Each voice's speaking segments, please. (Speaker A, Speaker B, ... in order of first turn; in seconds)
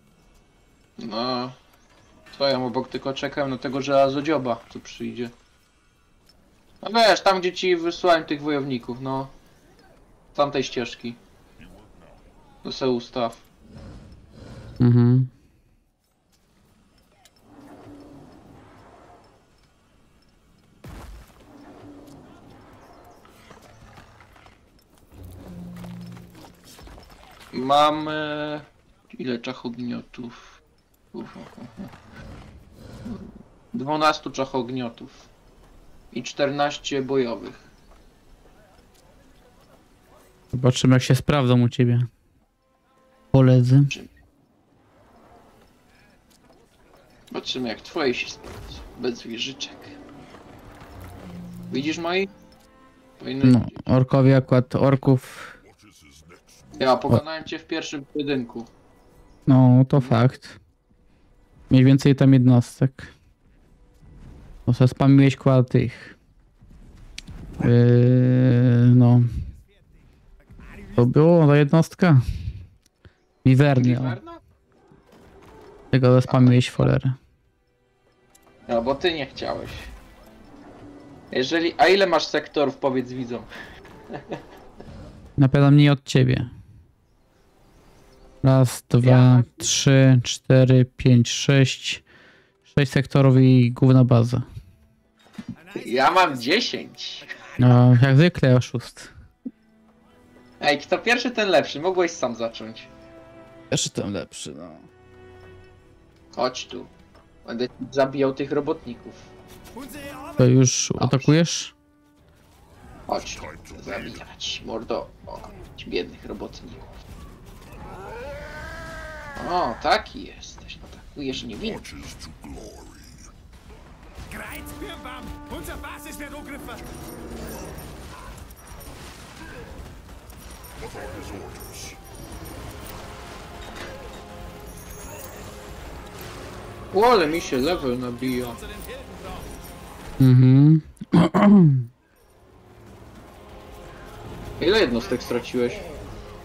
Speaker A: 1.0-1.6, 2.3-5.3, 6.8-9.3, 10.3-11.2, 12.6-13.4, 27.5-30.6, 31.1-31.9, 33.0-35.3, 36.1-37.6, 47.3-50.0, 51.7-52.3, 53.2-53.8, 56.8-58.7, 73.8-74.4, 76.3-76.9, 78.7-79.9, 81.3-83.5, 84.1-84.4, 89.0-89.5, 95.7-97.3, 100.6-102.9, 106.3-106.9, 107.4-109.3, 111.0-111.3, 113.1-116.8, 119.3-121.8, 136.9-138.6, 144.6-145.9
Speaker B: 11.6-12.2, 55.6-57.2, 113.1-114.2, 121.5-123.3, 130.8-132.0
Speaker C: 14.8-15.3, 40.5-42.1, 43.3-43.9, 53.4-55.5, 59.5-60.6, 61.7-63.1, 64.7-66.1, 67.6-69.3, 71.0-72.3, 73.4-74.2, 75.9-77.2, 85.4-86.5, 88.4-92.0, 92.7-94.4, 97.6-99.1, 103.7-104.8, 110.4-111.7, 140.2-141.8
Speaker D: 69.3-71.3, 95.5-97.9, 109.7-110.6, 124.3-126.8, 137.3-139.5